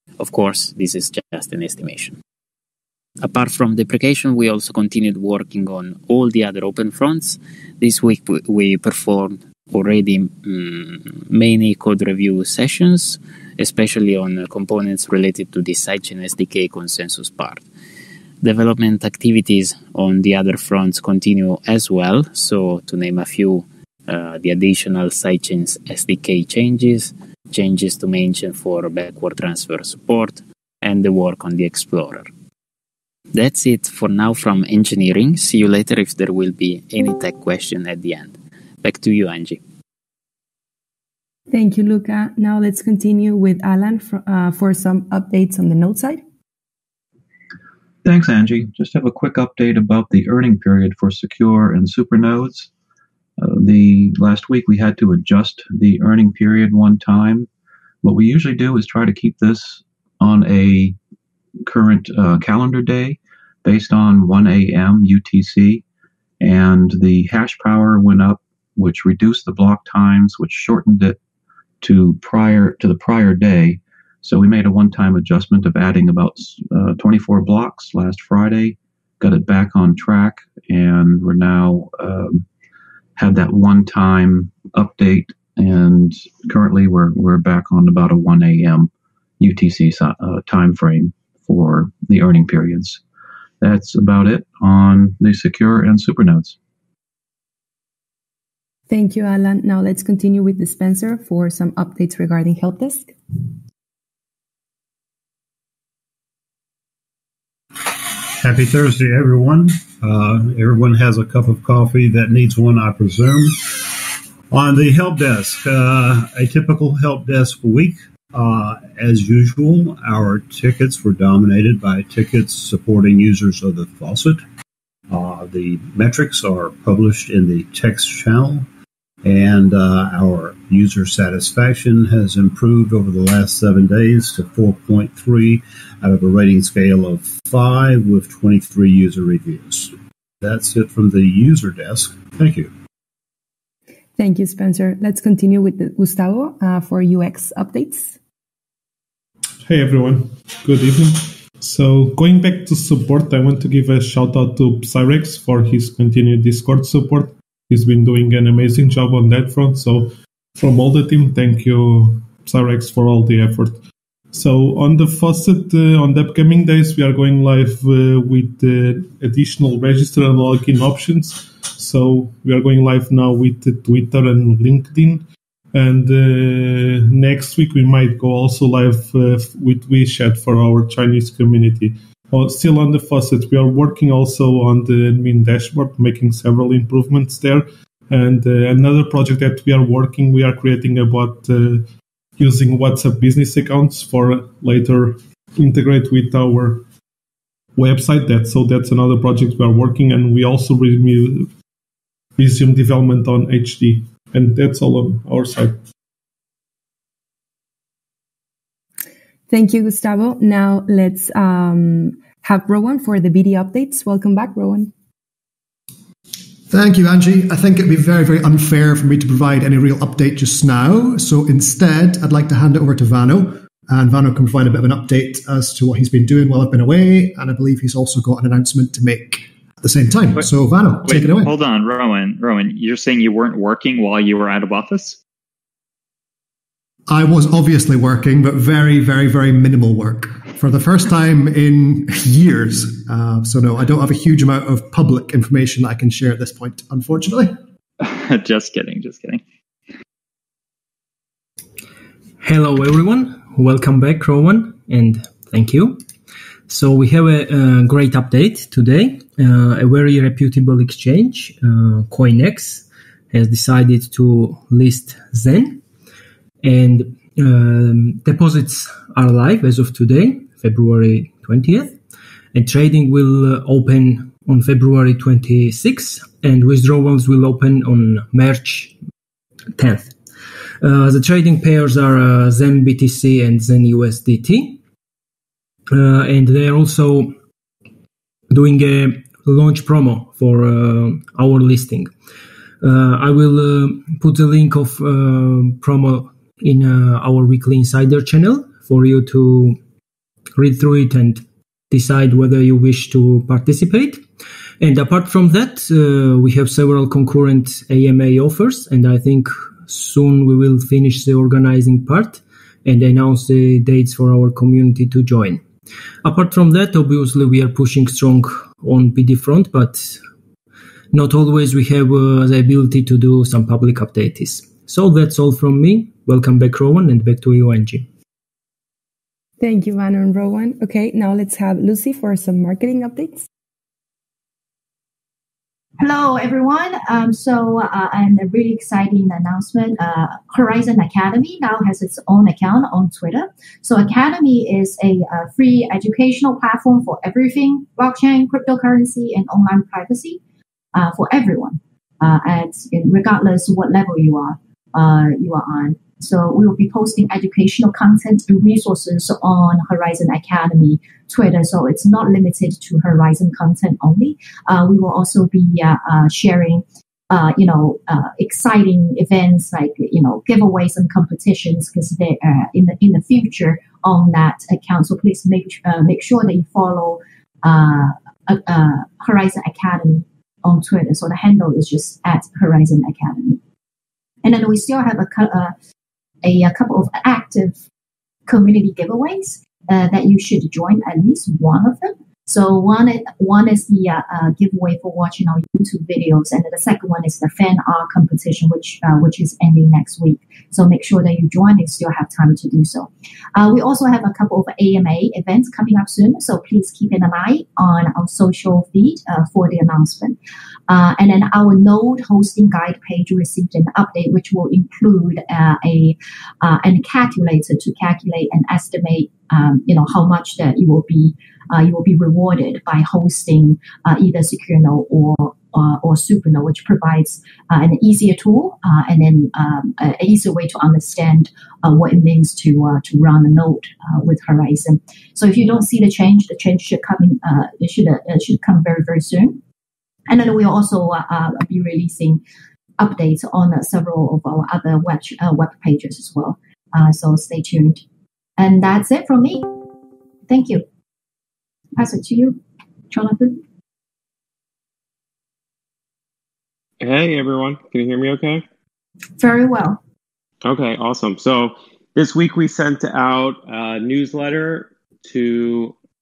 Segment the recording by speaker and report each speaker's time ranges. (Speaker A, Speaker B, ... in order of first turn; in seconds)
Speaker A: 0.2-2.2, 3.2-17.7, 18.4-32.3, 33.3-39.6
Speaker B: 41.5-46.2, 98.9-103.1, 144.2-148.2, 209.5-214.9, 329.6-333.5
Speaker C: 48.0-52.7, 53.4-57.5, 58.0-61.0, 61.6-65.8, 66.4-71.2, 71.8-82.5, 83.2-93.0, 93.6-96.6
Speaker D: 107.9-124.4, 125.1-128.7, 129.2-142.7
Speaker E: 149.6-163.8, 164.3-175.2, 175.7-191.9, 192.4-196.8, 197.8-201.5, 202.4-205.8
Speaker F: 216.7-231.5, 237.1-247.6
Speaker G: 231.0-235.2, 248.0-249.4
Speaker H: 252.4-256.0, 256.7-265.8, 266.6-272.0, 272.5-278.9, 279.8-280.1, 280.8-284.8, 285.9-287.3, 288.5-292.1, 292.8-299.8, 300.6-304.2, 304.8-315.6, 316.2-320.2, 321.1-328.1
Speaker I: 336.0-350.4, 350.9-383.6, 384.4-385.7, 386.4-387.8, 388.5-439.6, 440.3-442.4, 443.0-448.0, 448.6-449.7, 450.5-450.8, 451.9-452.6, 453.1-453.6, 459.4-460.0
Speaker J: 457.0-458.6, 460.6-466.0